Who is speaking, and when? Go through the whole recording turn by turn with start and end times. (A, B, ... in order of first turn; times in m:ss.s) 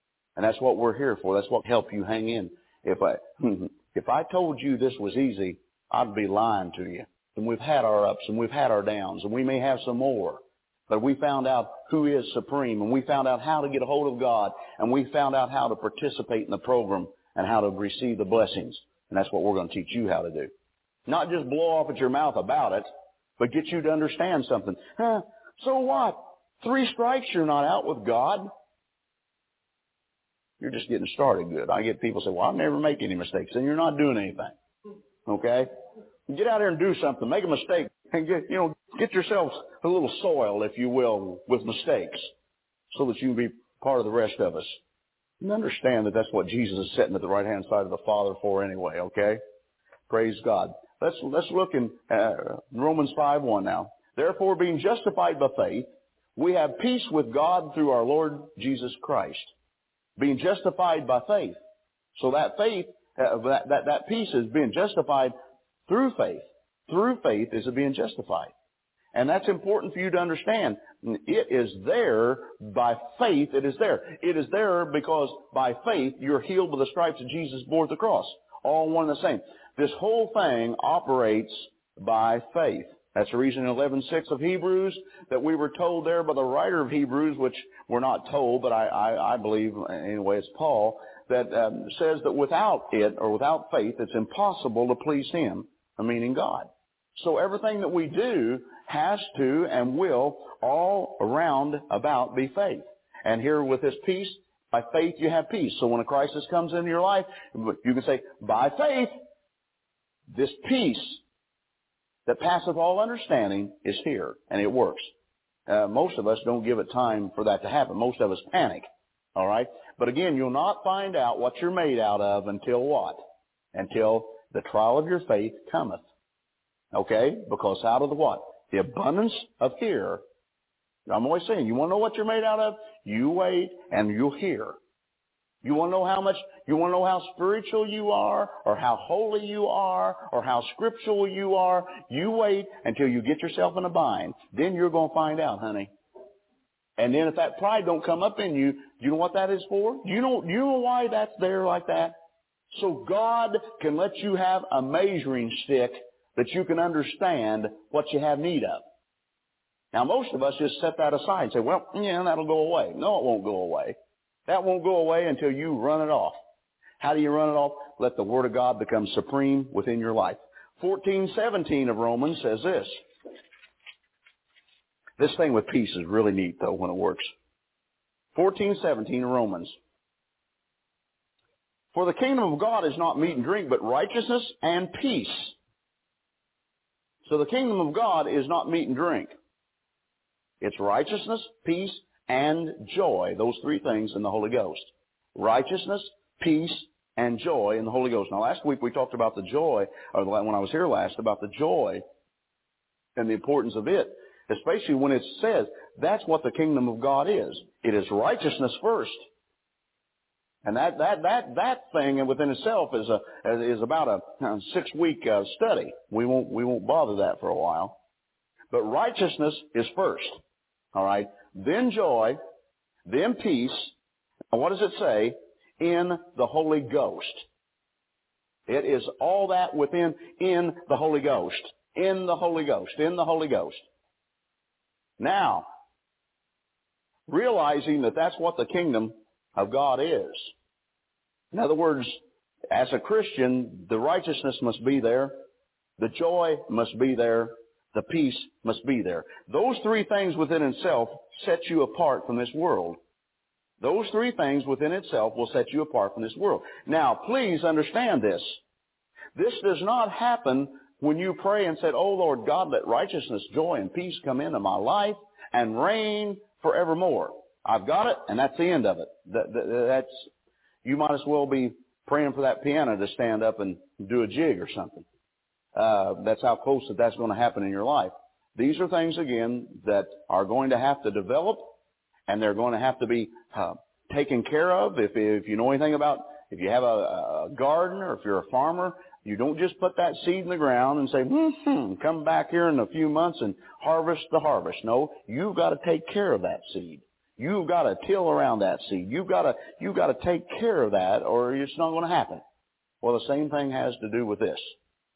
0:00.4-0:20.5 A
0:21.1-0:22.9 A
0:23.4-0:28.5 A
0:30.6-0:34.5 A
0:35.2-0:35.7 A
0:36.3-0:42.3 A
0:42.9-0:44.8 A
0:45.4-0:49.4 A
0:50.1-0:59.5 A
1:00.2-1:01.6 A
1:02.2-1:05.3 A
1:05.9-1:08.5 A
1:09.1-1:49.1 A
1:50.3-1:51.2 A
1:52.2-1:55.1 A
1:55.7-2:06.0 A
2:06.9-2:10.2 A
2:11.1-2:14.8 A
2:15.6-2:25.9 A
2:27.0-2:32.2 A
2:32.7-2:38.8 A
2:39.9-2:44.0 A
2:44.5-2:46.4 A
2:47.0-2:53.0 A
2:55.2-2:57.3 A
2:58.3-2:59.7 A
3:01.9-3:05.6 A
3:07.2-3:09.3 A
3:10.6-3:22.0 A
3:23.2-3:29.2 A
3:30.6-3:38.0 A
3:38.7-3:40.4 A
3:40.9-3:42.4 A
3:43.0-3:43.9 A
3:44.5-3:47.4 A
3:48.7-3:53.8 A
3:55.2-3:55.7 A
3:57.3-4:00.5 A
4:01.5-4:02.2 A
4:02.7-4:05.4 A
4:06.0-4:13.0 A
4:13.8-4:18.6 A
4:19.3-4:30.3 A
4:30.8-4:35.0 A
4:35.7-4:41.7 A
4:42.3-5:02.4 A
5:03.0-5:04.7 A